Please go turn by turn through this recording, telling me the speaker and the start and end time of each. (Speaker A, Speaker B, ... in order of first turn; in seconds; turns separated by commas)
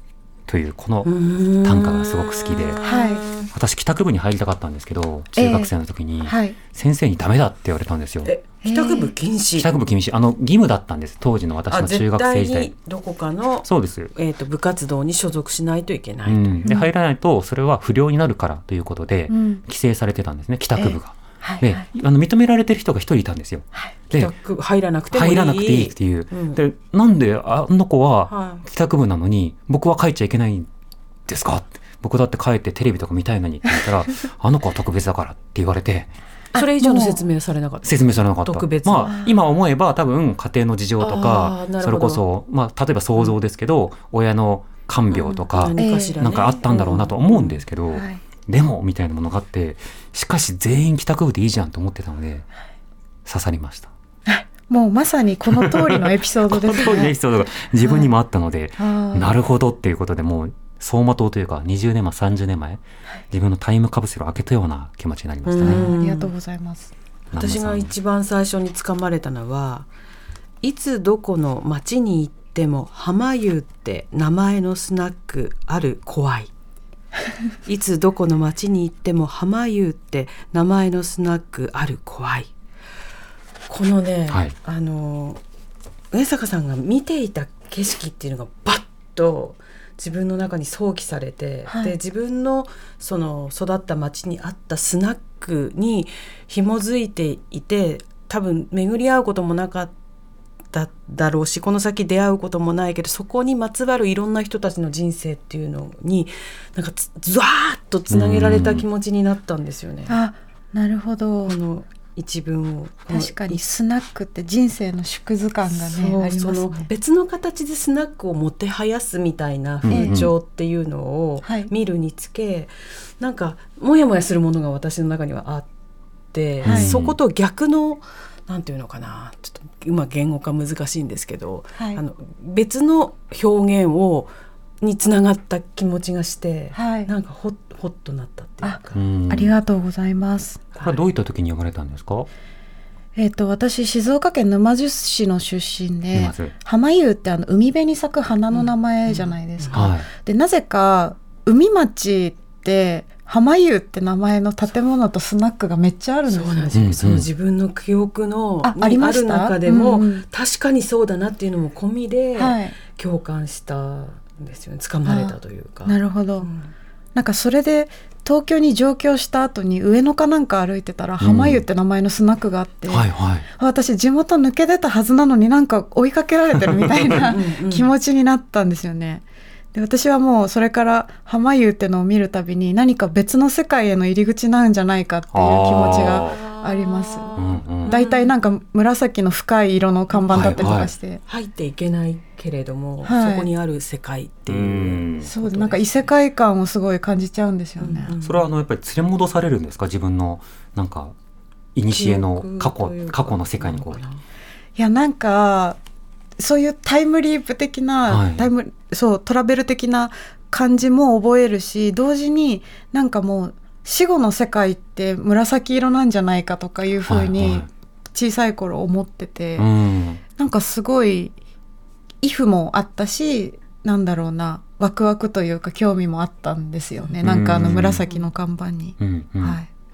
Speaker A: 0.5-2.8, Speaker B: 1.0-3.5, Speaker C: 2.8-3.2, Speaker A: 3.4-8.3, Speaker C: 5.3-5.7, Speaker C: 6.2-6.6, Speaker B: 8.2-9.7, Speaker C: 8.6-9.1, Speaker A: 9.6-12.7, Speaker B: 11.7-16.6, Speaker A: 13.6-14.1, Speaker A: 16.2-24.3, Speaker C: 19.3-19.6, Speaker C: 20.8-21.9, Speaker B: 24.1-26.6, Speaker A: 25.1-30.7, Speaker B: 28.3-28.6, Speaker A: 31.3-36.1, Speaker C: 36.5-37.2, Speaker B: 36.5-39.1, Speaker A: 37.8-52.5, Speaker C: 39.1-39.3, Speaker B: 41.0-42.2, Speaker B: 45.2-47.6, Speaker C: 45.8-46.1, Speaker C: 47.9-48.2, Speaker A: 53.2-53.9, Speaker C: 54.3-57.1, Speaker A: 55.5-65.9, Speaker C: 57.8-58.1, Speaker C: 58.8-59.4, Speaker B: 65.5-66.3, Speaker C: 65.6-66.9, Speaker A: 67.3-67.9, Speaker B: 67.3-69.9, Speaker B: 70.6-76.5, Speaker B: 77.6-82.5, Speaker B: 83.7-85.4, Speaker B: 86.1-99.9, Speaker C: 91.7-92.0, Speaker B: 100.7-110.2, Speaker A: 108.1-108.8, Speaker C: 110.1-111.6, Speaker B: 111.4-113.6, Speaker C: 113.1-116.9, Speaker B: 115.7-125.7, Speaker A: 119.8-120.3, Speaker C: 119.9-120.2, Speaker C: 121.4-121.7, Speaker B: 126.3-139.0, Speaker A: 126.6-127.2, Speaker C: 126.6-126.9, Speaker C: 136.7-137.1, Speaker C: 138.6-140.7, Speaker A: 138.9-139.5, Speaker A: 140.8-142.3, Speaker C: 143.2-156.8, Speaker A: 146.1-146.5, Speaker B: 148.5-149.9, Speaker A: 149.7-150.1, Speaker B: 156.3-166.7, Speaker A: 156.7-157.3, Speaker C: 158.6-160.2, Speaker C: 162.4-162.7, Speaker C: 165.1-166.5, Speaker C: 167.1-173.1, Speaker A: 171.2-171.7, Speaker A: 172.9-173.5, Speaker C: 173.6-179.2, Speaker B: 177.2-177.9, Speaker C: 179.7-191.2, Speaker A: 185.3-186.4, Speaker B: 186.2-188.3, Speaker A: 187.3-187.9, Speaker B: 190.1-196.1, Speaker A: 190.3-190.9, Speaker C: 193.0-193.5, Speaker A: 194.5-195.3, Speaker C: 195.2-198.1, Speaker B: 197.8-198.5, Speaker A: 198.2-201.1, Speaker A: 201.7-204.0, Speaker B: 201.9-204.2, Speaker C: 204.8-205.8, Speaker C: 206.4-219.7, Speaker A: 208.1-208.5, Speaker A: 217.1-217.7, Speaker A: 219.6-220.2, Speaker C: 220.3-221.3, Speaker C: 222.2-229.7, Speaker A: 227.2-228.0, Speaker A: 229.0-229.6